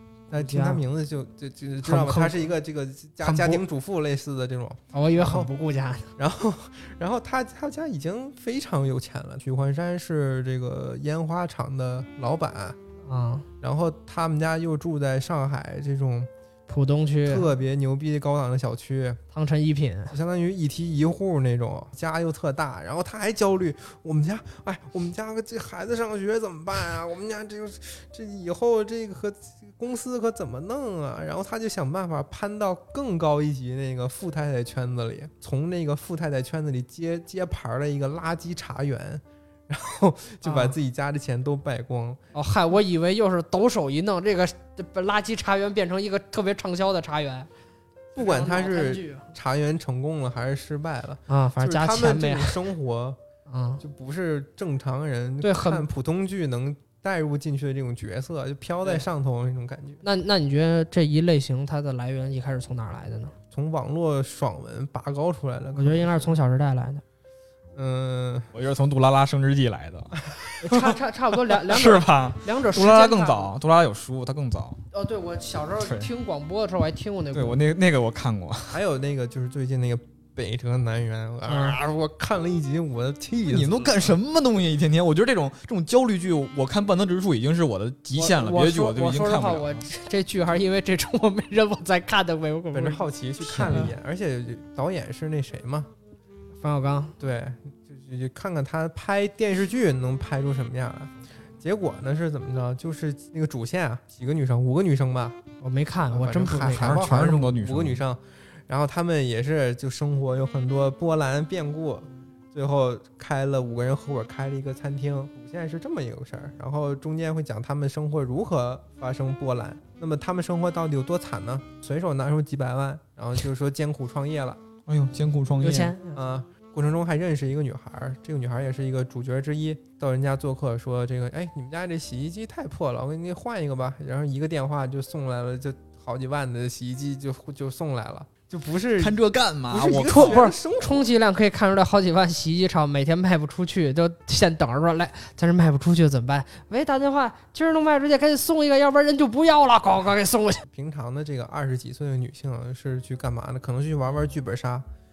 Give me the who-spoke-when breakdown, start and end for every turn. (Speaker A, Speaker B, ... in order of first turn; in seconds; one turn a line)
Speaker A: 0.3-5.5
Speaker B: 0.3-0.8
Speaker B: 1.8-2.5
Speaker B: 3.2-3.6
Speaker B: 4.9-6.1
Speaker A: 6.2-12.8
Speaker B: 13.0-13.5
Speaker A: 13.6-16.3
Speaker B: 16.7-17.5
Speaker A: 17.2-19.2
Speaker B: 19.3-20.1
Speaker A: 20.1-42.2
Speaker B: 40.4-40.8
Speaker B: 42.3-47.5
Speaker A: 48.1-53.2
Speaker B: 48.1-49.3
Speaker B: 51.3-52.6
Speaker B: 53.5-53.8
Speaker A: 53.8-60.0
Speaker B: 55.4-55.8
Speaker B: 60.0-63.3
Speaker A: 63.5-66.3
Speaker B: 65.7-67.0
Speaker A: 67.7-68.5
Speaker C: 68.5-71.0
Speaker B: 70.6-73.5
Speaker C: 71.5-74.8
Speaker B: 74.9-77.6
Speaker C: 75.8-76.1
Speaker C: 77.3-78.8
Speaker A: 78.7-84.2
Speaker B: 81.5-81.8
Speaker C: 83.5-89.8
Speaker B: 88.2-93.9
Speaker A: 92.7-95.9
Speaker C: 93.6-93.9
Speaker B: 96.6-97.2
Speaker A: 97.2-105.4
Speaker B: 105.6-107.1
Speaker A: 106.1-124.6
Speaker C: 106.6-108.0
Speaker C: 124.9-125.9
Speaker B: 125.6-126.2
Speaker A: 126.1-141.1
Speaker C: 139.0-140.4
Speaker B: 140.1-150.6
Speaker A: 150.7-154.9